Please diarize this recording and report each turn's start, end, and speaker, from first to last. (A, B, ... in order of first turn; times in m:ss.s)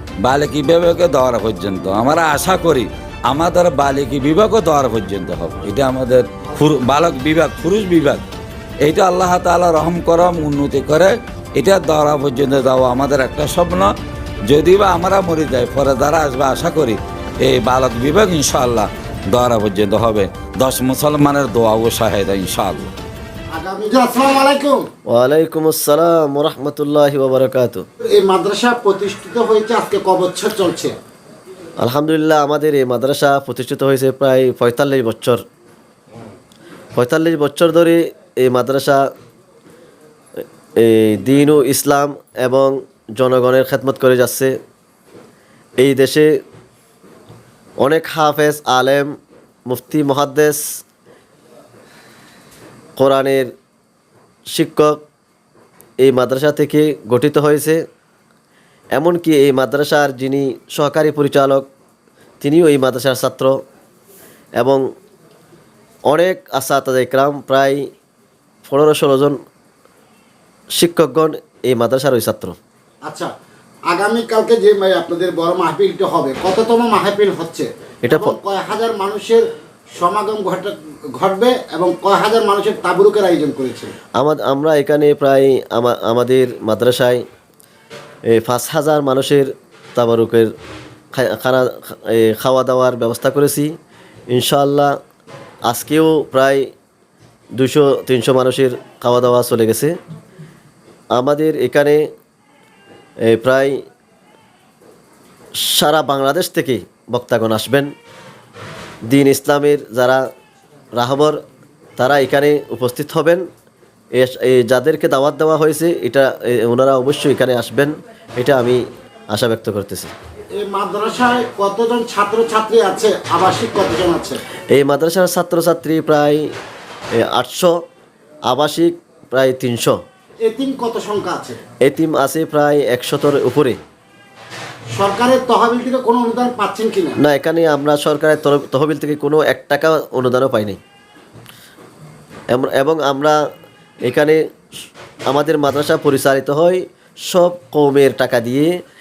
0:00.2-0:08.2 A
0:08.8-0:13.9 A
0:14.5-0:22.9 A
0:23.5-0:24.9 B
0:25.1-0:27.9 C
0:28.0-0:30.9 B
0:31.8-0:35.4 C
0:36.9-0:39.1 C
0:40.8-0:44.6 C
0:45.8-0:46.4 C
0:47.8-0:49.1 C
0:49.7-0:50.6 C
0:53.0-0:53.5 C
0:54.5-0:55.0 C
0:56.0-0:57.8 C
0:58.9-1:01.7 C
1:02.4-1:03.6 C
1:04.6-1:04.8 C
1:06.1-1:07.8 C
1:08.6-1:09.4 C
1:10.8-1:12.6 C
1:13.0-1:13.3 B
1:13.9-1:19.4 B
1:18.0-1:18.4 C
1:20.0-1:23.9 B
1:24.2-1:27.2 C
1:28.3-1:30.5 C
1:31.1-1:33.7 C
1:34.3-1:34.9 C
1:35.7-1:36.7 C
1:37.6-1:40.0 C
1:41.1-1:42.0 C
1:43.2-1:43.8 C
1:45.6-1:47.9 C
1:49.1-1:50.2 C
1:50.9-1:51.4 C
1:52.0-1:53.4 C
1:54.2-2:00.1 C
2:00.6-2:04.4 B
2:04.7-2:06.5 C
2:07.1-2:07.8 C
2:08.5-2:10.0 C
2:10.4-2:11.6 B
2:11.8-2:13.8 C
2:14.9-2:17.2 B
2:17.2-2:20.8 C
2:22.5-2:23.4 C
2:24.0-2:24.4 C
2:25.3-2:28.7 C